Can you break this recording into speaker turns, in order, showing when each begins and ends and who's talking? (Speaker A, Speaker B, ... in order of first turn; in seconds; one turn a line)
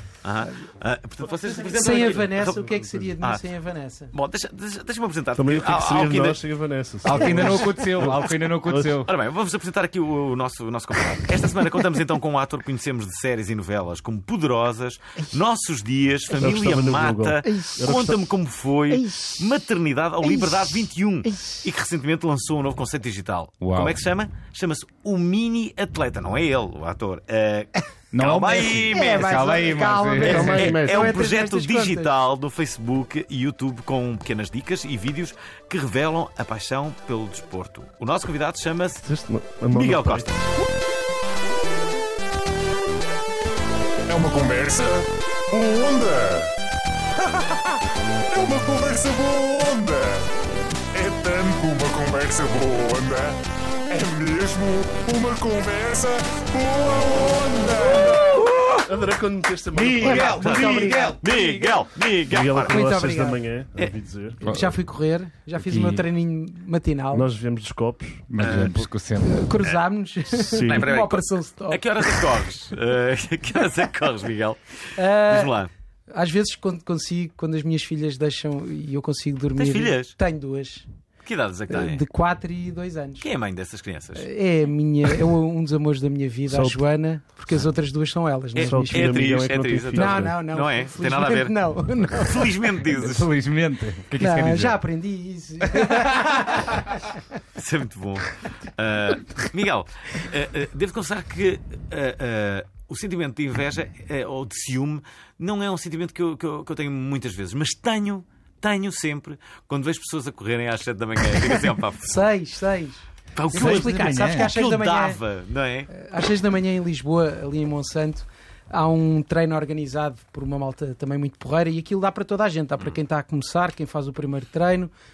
Speaker A: 0.2-2.7
Speaker B: 1.7-4.1
Speaker C: 2.5-3.1
Speaker A: 4.1-6.4
Speaker C: 5.3-8.9
Speaker D: 7.0-9.1
Speaker A: 9.1-39.0
Speaker C: 16.4-18.2
Speaker B: 17.4-17.8
Speaker B: 18.9-19.4
Speaker B: 20.2-21.6
Speaker D: 23.6-24.0
Speaker D: 28.1-30.7
Speaker B: 28.9-32.1
Speaker C: 30.2-31.2
Speaker C: 39.0-40.3
Speaker A: 39.7-40.5
Speaker E: 44.0-46.5
Speaker E: 47.2-47.6
Speaker E: 48.3-50.3
Speaker E: 50.9-53.4
Speaker E: 53.9-58.5
Speaker A: 58.3-58.9
Speaker C: 58.9-60.6
Speaker D: 59.7-61.8
Speaker B: 60.0-61.2
Speaker A: 60.2-62.8
Speaker C: 62.3-64.5
Speaker B: 62.7-63.4
Speaker B: 64.4-67.3
Speaker D: 64.5-64.7
Speaker D: 65.6-66.0
Speaker C: 67.1-68.3
Speaker D: 68.3-69.5
Speaker A: 68.4-68.8
Speaker B: 69.2-71.9
Speaker C: 70.5-70.9
Speaker A: 70.5-74.6
Speaker B: 75.0-75.5
Speaker A: 75.2-75.7
Speaker B: 76.1-80.8
Speaker A: 79.5-80.1
Speaker A: 81.2-82.0
Speaker B: 81.7-83.2
Speaker A: 83.2-84.3
Speaker B: 84.2-89.2
Speaker C: 86.5-86.8
Speaker A: 88.5-91.6
Speaker C: 88.6-90.4
Speaker B: 89.9-92.5
Speaker A: 92.2-93.3
Speaker D: 92.9-94.8
Speaker B: 94.2-96.8
Speaker D: 95.6-96.1
Speaker A: 97.5-112.3
Speaker B: 112.0-115.2
Speaker A: 113.3-115.9
Speaker D: 113.5-114.5
Speaker B: 115.9-124.9